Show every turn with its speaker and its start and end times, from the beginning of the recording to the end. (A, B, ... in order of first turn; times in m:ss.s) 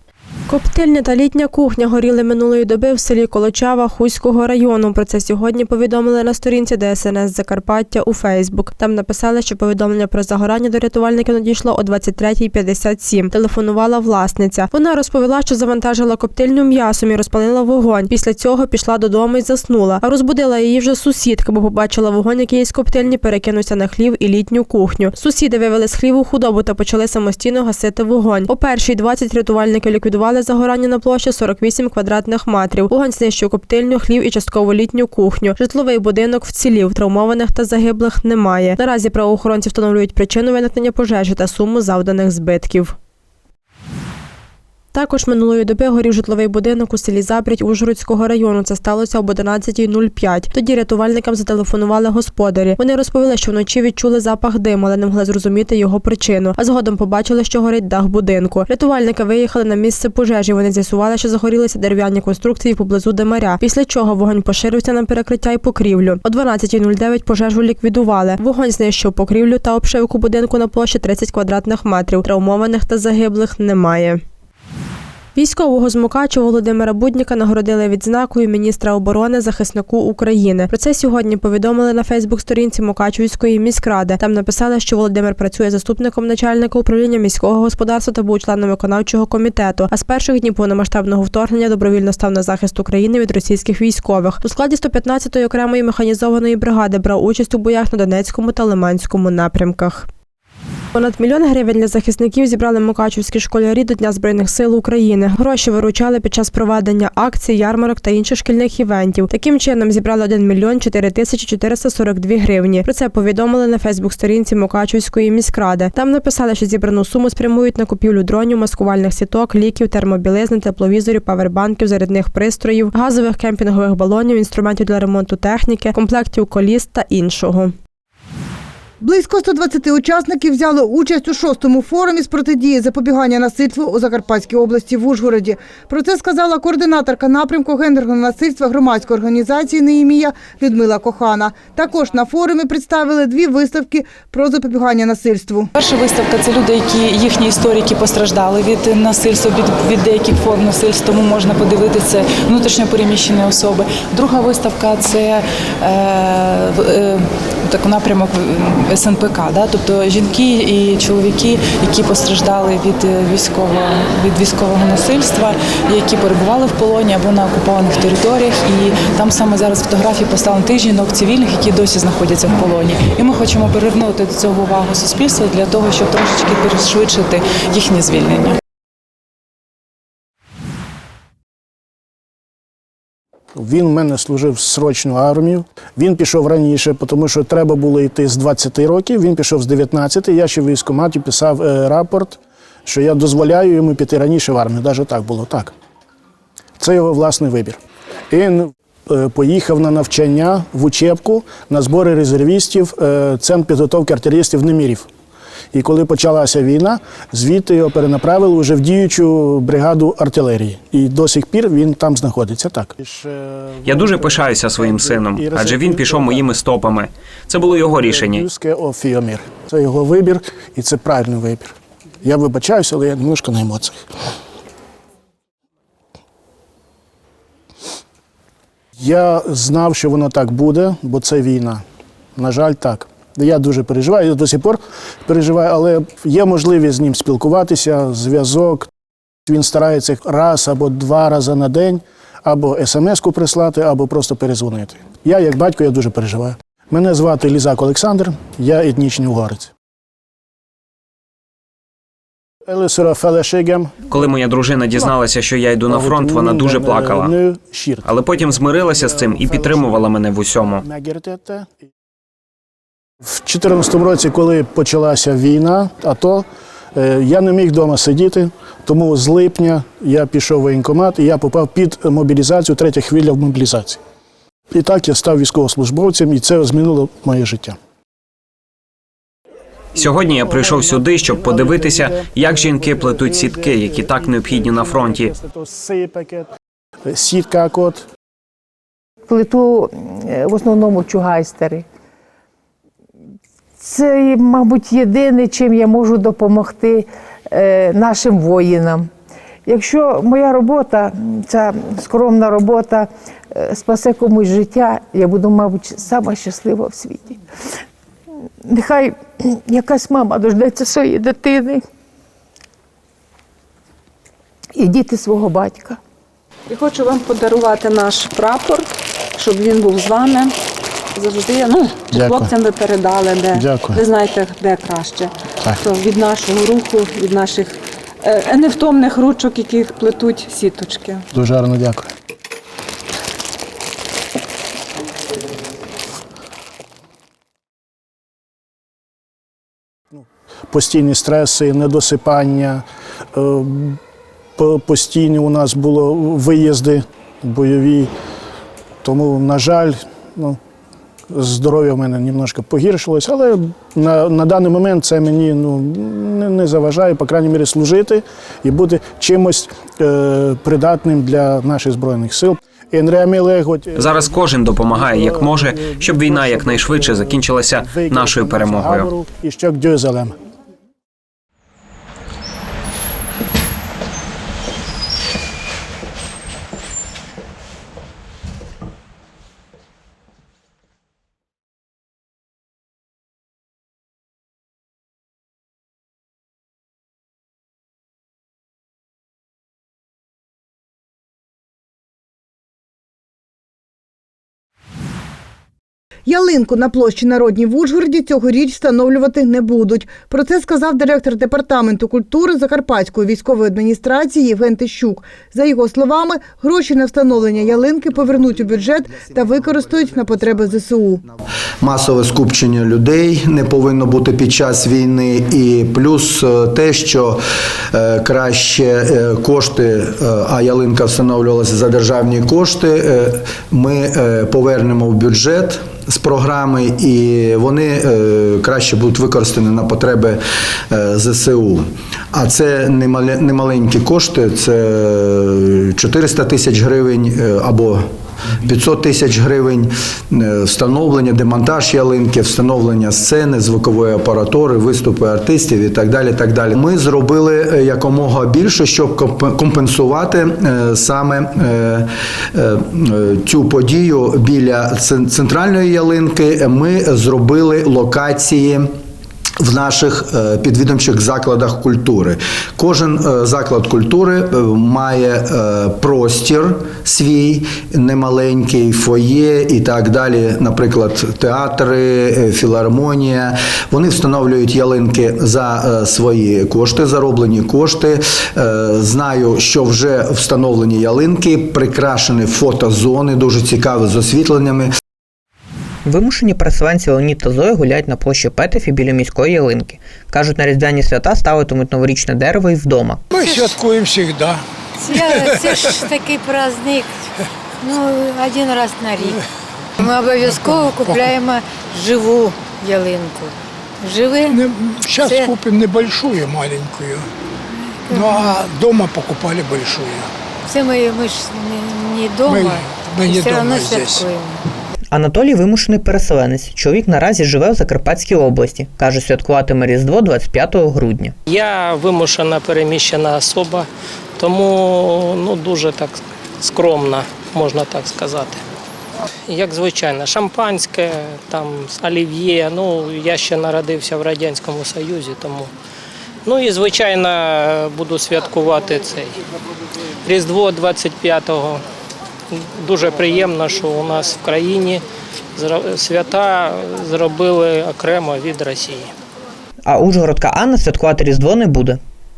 0:00.5-0:43.0 A
0:44.9-1:14.2 A
1:15.4-1:40.1 A
1:40.9-2:07.8 A
2:09.0-2:25.7 B
2:25.7-2:58.6 C
3:03.6-3:15.7 D
3:16.8-3:17.8 D
3:18.3-3:25.1 D
3:25.7-3:37.0 D
3:33.8-3:38.4 E
3:37.6-3:44.0 D
3:49.0-3:51.8 D
3:52.4-3:58.9 D
3:59.5-4:09.7 D
4:12.7-4:14.3 D
4:14.1-4:17.3 E
4:15.9-4:20.1 D
4:18.0-4:20.8 E
4:20.8-4:21.8 D
4:23.2-4:34.0 D
4:34.7-4:37.8 D
4:40.0-4:45.3 E
4:40.3-4:46.5 D
4:47.1-4:48.0 D
4:49.3-4:51.8 F
4:53.8-4:59.1 F
4:59.7-5:07.4 F
5:08.6-5:11.8 F
5:14.8-5:16.0 F
5:16.7-5:20.5 G
5:21.2-5:25.3 G
5:22.1-5:22.5 D
5:23.5-5:24.0 D
5:25.8-5:31.2 G
5:31.3-5:32.1 D
5:40.2-5:42.8 D
5:43.4-5:44.0 D
5:44.6-5:48.1 D
5:49.0-5:50.6 D
5:51.3-6:10.4 D
6:04.0-6:09.1 E
6:36.3-6:51.2 B
6:48.1-6:50.9 H
6:51.8-6:57.4 H
6:57.9-7:10.4 H
7:10.9-7:18.0 H
7:18.6-7:38.9 H
7:39.6-8:04.9 H
8:06.1-8:13.2 I
8:13.3-8:14.6 J
8:13.4-8:13.7 K
8:15.0-8:17.1 K
8:15.1-8:16.0 J
8:17.8-8:19.4 K
8:20.0-8:24.6 K
8:20.6-8:21.2 J
8:24.5-8:27.2 J
8:25.2-8:25.5 K
8:28.1-8:28.4 K
8:28.1-8:30.3 J
8:30.7-8:34.6 K
8:32.5-8:34.3 J
8:35.1-8:41.3 I
8:41.5-8:43.9 L
8:44.4-8:48.6 L
8:49.5-8:55.7 L
8:56.5-8:59.4 L
9:00.2-9:01.8 L
9:02.5-9:05.0 L
9:05.6-9:09.1 L
9:09.9-9:12.0 I